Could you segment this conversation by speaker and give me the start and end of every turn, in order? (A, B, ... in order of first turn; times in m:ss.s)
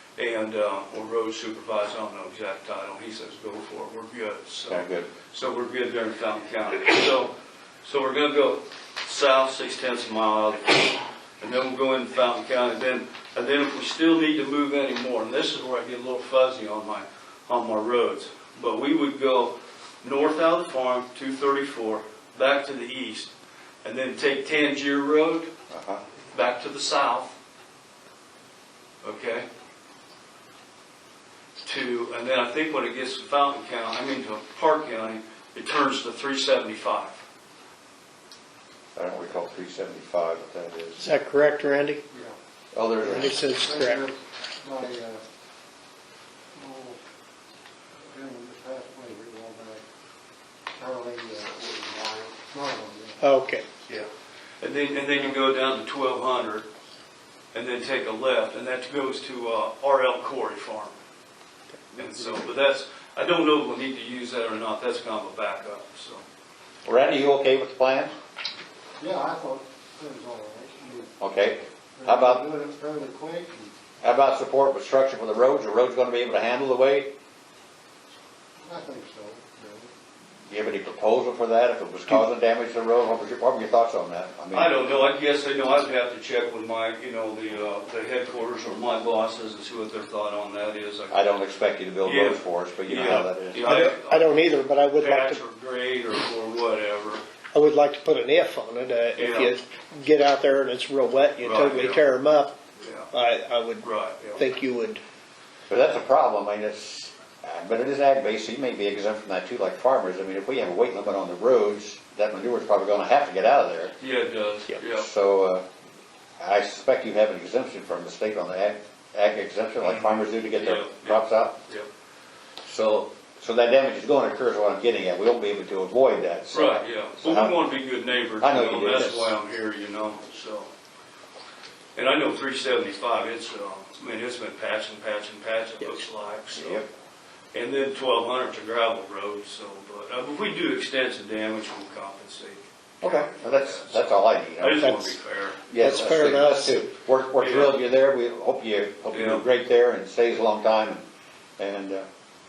0:00.2-0:07.3 A
0:04.7-0:05.1 B
0:07.8-0:23.3 A
0:23.8-0:25.5 A
0:25.7-0:26.0 B
0:26.3-0:27.3 A
0:29.0-0:29.4 A
0:31.6-0:37.2 A
0:39.0-0:41.0 B
0:41.0-0:42.0 C
0:42.1-0:42.4 D
0:42.7-0:43.4 B
0:43.0-0:44.0 C
0:43.4-0:45.2 D
0:46.5-0:47.0 D
0:48.1-0:49.8 D
0:50.7-0:53.2 D
0:53.2-0:53.7 C
0:54.6-0:56.6 A
0:57.5-1:01.0 A
1:02.0-1:06.2 A
1:06.8-1:08.1 B
1:09.0-1:11.1 D
1:11.2-1:12.4 B
1:12.0-1:13.7 D
1:14.0-1:17.1 B
1:18.6-1:19.9 D
1:20.5-1:24.8 B
1:24.5-1:31.2 A
1:31.1-1:33.9 B
1:32.0-1:34.4 A
1:33.6-1:35.4 C
1:35.0-1:37.2 A
1:37.5-1:42.5 C
1:39.2-1:39.5 A
1:41.4-1:42.0 A
1:42.8-1:43.1 A
1:43.1-1:45.0 C
1:43.8-1:44.4 A
1:45.7-1:53.9 B
1:54.0-1:55.1 A
1:54.8-1:55.6 B
1:56.4-2:01.6 B
1:59.8-2:01.9 A
2:02.6-2:07.6 B
2:06.5-2:10.7 A
2:08.4-2:09.3 B
2:12.0-2:16.8 A
2:16.5-2:16.8 B
2:17.5-2:25.6 A
2:23.0-2:25.0 B
2:24.8-2:25.1 C
2:25.7-2:31.0 B
2:25.7-2:26.8 C
2:27.4-2:27.8 A
2:29.1-2:29.4 A
2:31.6-2:32.0 B